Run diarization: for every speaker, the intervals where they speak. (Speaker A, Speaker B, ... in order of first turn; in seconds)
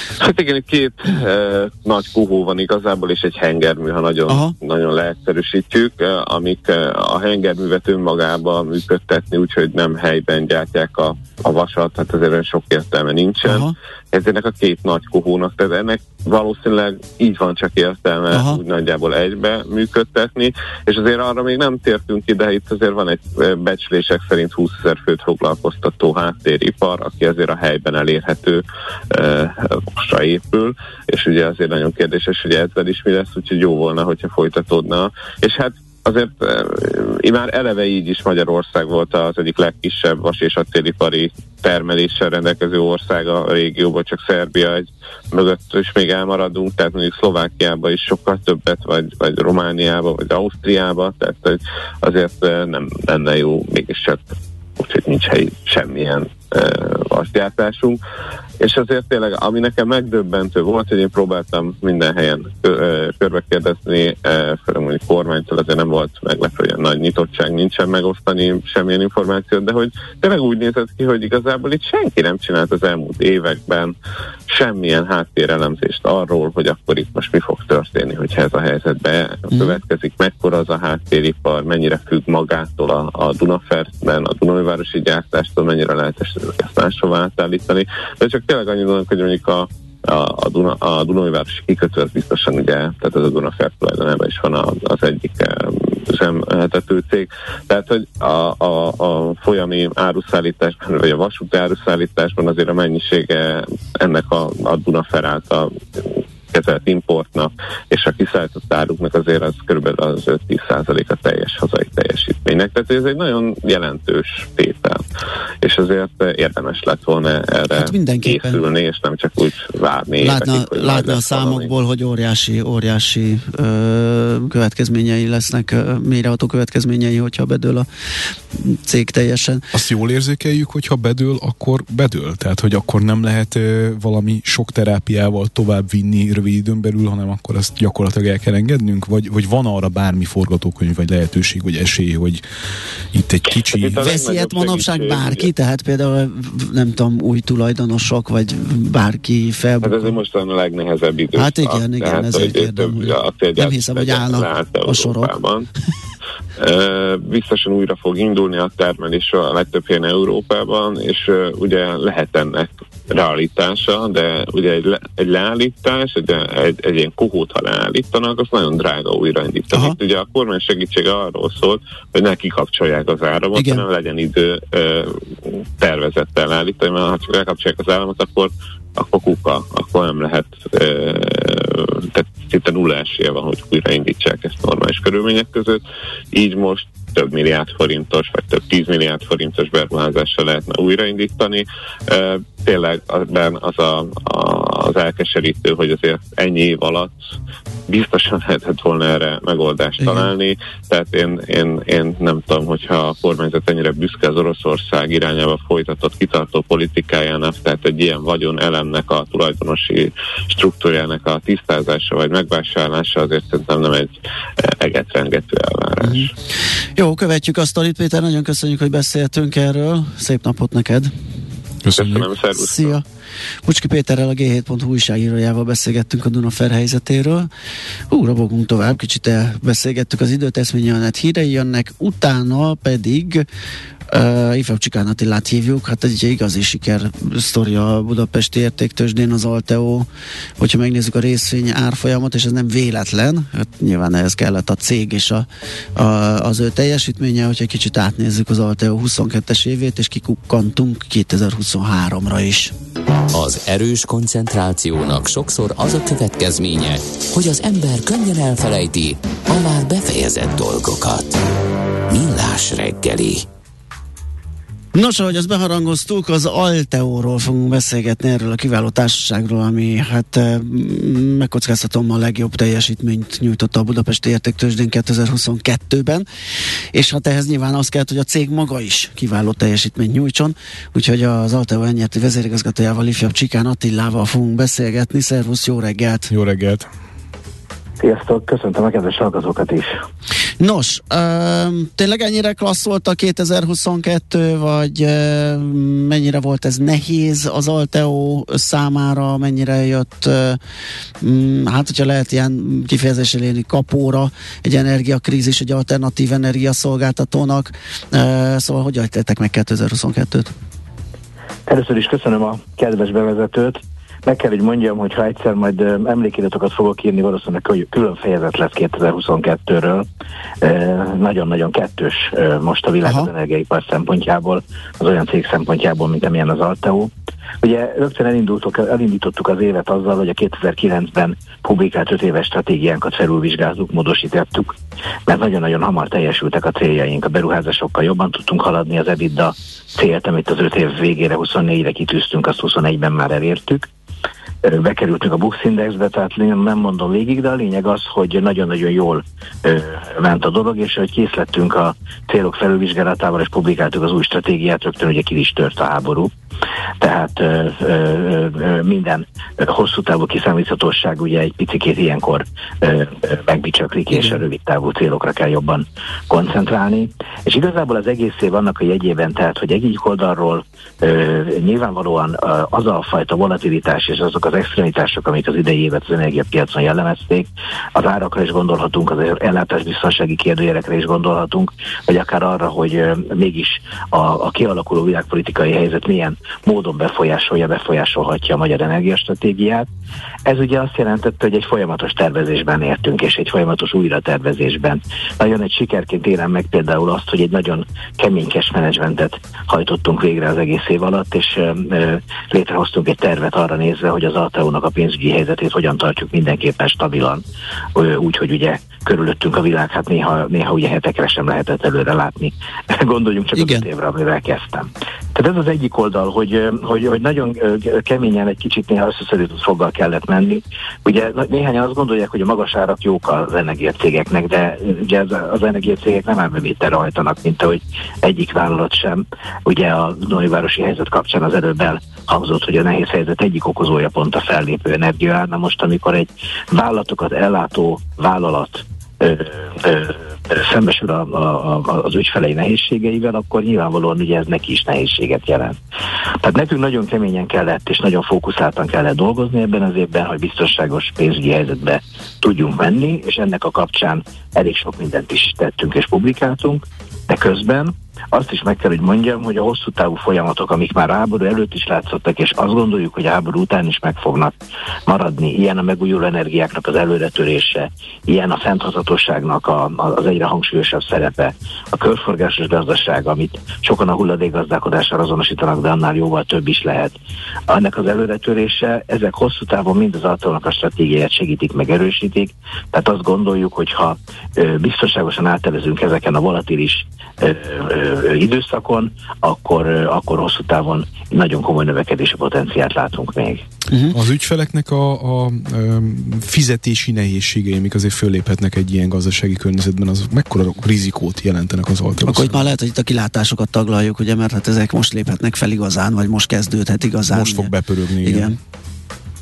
Speaker A: 0.2-58.0, 58.6-73.9, 74.5-115.0, 115.6-121.7, 143.7-145.5, 149.8-155.7, 156.6-197.1, 197.9-216.3, 222.0-223.0
Speaker B: 4.3-4.5, 13.4-13.7, 18.3-18.6, 79.5-79.8, 117.7-118.6, 120.2-127.9, 128.5-129.6, 144.0-150.2, 151.3-155.3, 169.7-170.0, 173.5-173.8, 216.0-216.3, 216.9-221.1, 222.5-223.0, 223.7-227.5, 228.1-233.4, 234.1-240.1, 240.6-252.7, 264.9-276.2, 276.9-286.3, 290.6-300.6, 301.2-310.5, 364.1-364.4, 413.5-413.9, 493.9-494.1, 502.2-507.7, 508.2-508.6
Speaker C: 129.7-142.4, 143.1-144.0, 221.8-222.3, 286.3-286.9, 494.1-502.7, 507.3-508.5
Speaker D: 253.3-261.4, 262.1-263.4
Speaker E: 288.0-289.9, 311.7-320.1, 320.6-327.1, 327.6-334.7, 335.3-343.9, 344.6-356.3, 357.0-389.9, 390.4-407.4, 407.9-445.8, 446.4-464.5, 465.1-477.1, 477.7-493.6